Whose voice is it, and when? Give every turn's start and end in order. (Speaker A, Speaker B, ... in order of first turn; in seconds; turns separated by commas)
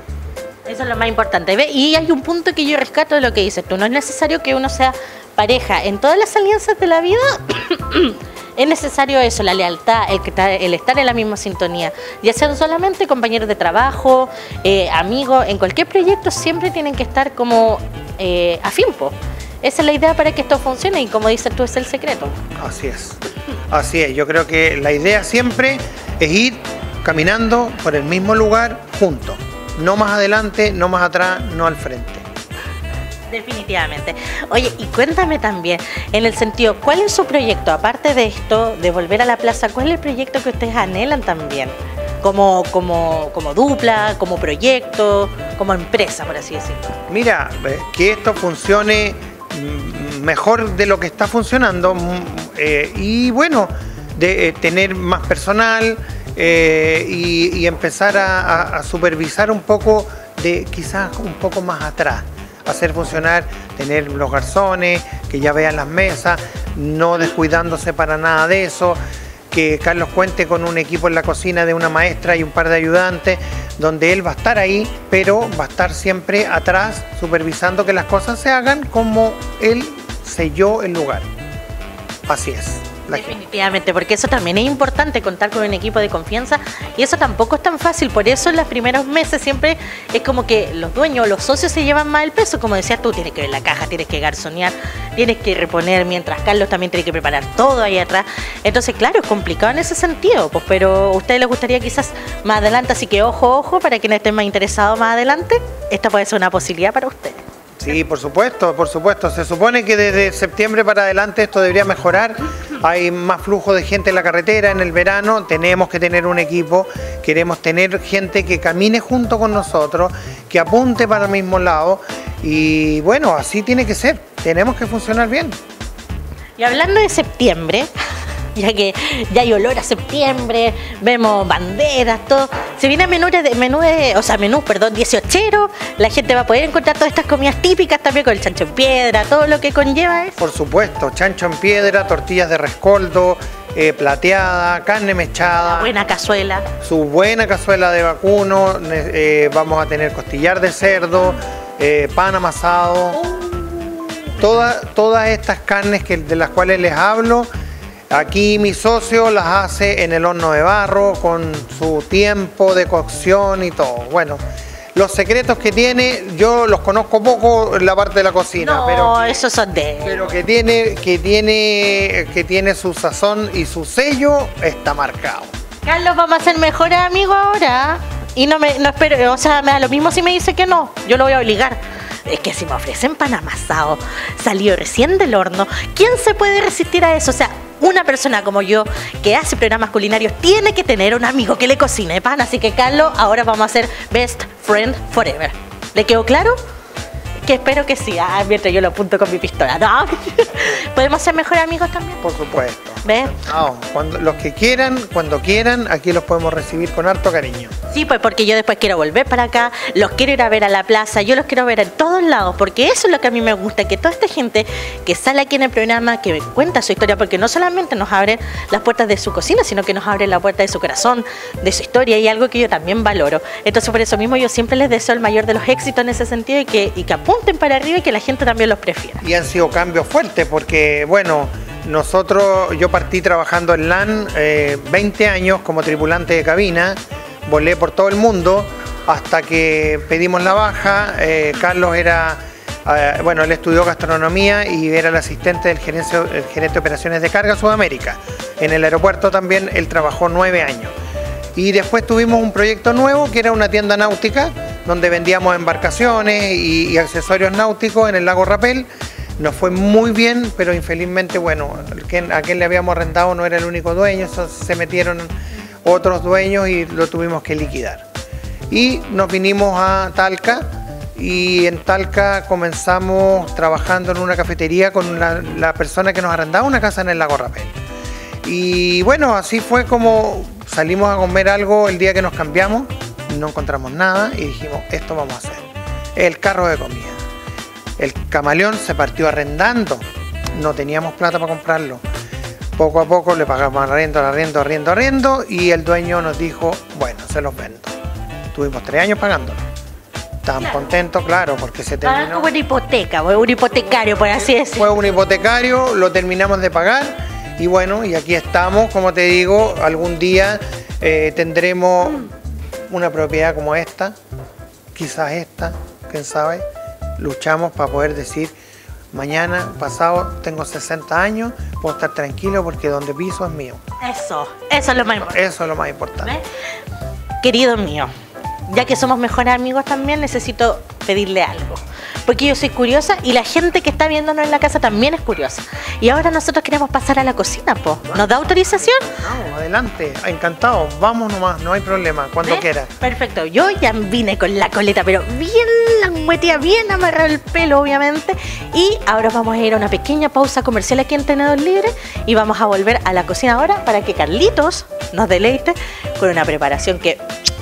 Speaker A: 0.7-22.4, Speaker B: 22.6-32.2, Speaker A: 33.3-46.9, Speaker B: 47.1-69.0, Speaker B: 69.5-81.3, Speaker B: 82.3-83.3, Speaker A: 83.1-107.4, Speaker B: 107.8-125.6, Speaker A: 126.6-127.9, Speaker A: 128.5-140.4, Speaker B: 140.4-145.9, Speaker A: 145.6-146.7, Speaker B: 146.8-153.2, Speaker A: 153.1-154.4, Speaker B: 154.4-157.5, Speaker B: 158.1-164.4, Speaker B: 164.9-169.4, Speaker A: 168.6-170.2, Speaker B: 170.0-175.5, Speaker A: 175.8-196.6, Speaker A: 197.4-202.2, Speaker B: 202.2-207.7, Speaker A: 203.0-203.4, Speaker A: 207.9-229.2, Speaker B: 229.2-250.9, Speaker B: 251.6-265.3, Speaker B: 265.8-268.1, Speaker B: 268.7-277.8, Speaker B: 278.4-287.2, Speaker B: 288.0-292.0, Speaker B: 292.8-297.9, Speaker B: 298.5-299.6, Speaker B: 300.4-302.5, Speaker A: 302.0-305.0, Speaker B: 304.6-312.3, Speaker B: 312.9-314.2, Speaker B: 314.9-316.6, Speaker B: 317.2-318.5, Speaker B: 319.1-323.8, Speaker A: 324.0-325.4, Speaker B: 325.2-326.3, Speaker A: 327.4-328.1, Speaker A: 328.7-339.1, Speaker B: 338.1-342.9, Speaker A: 342.4-357.2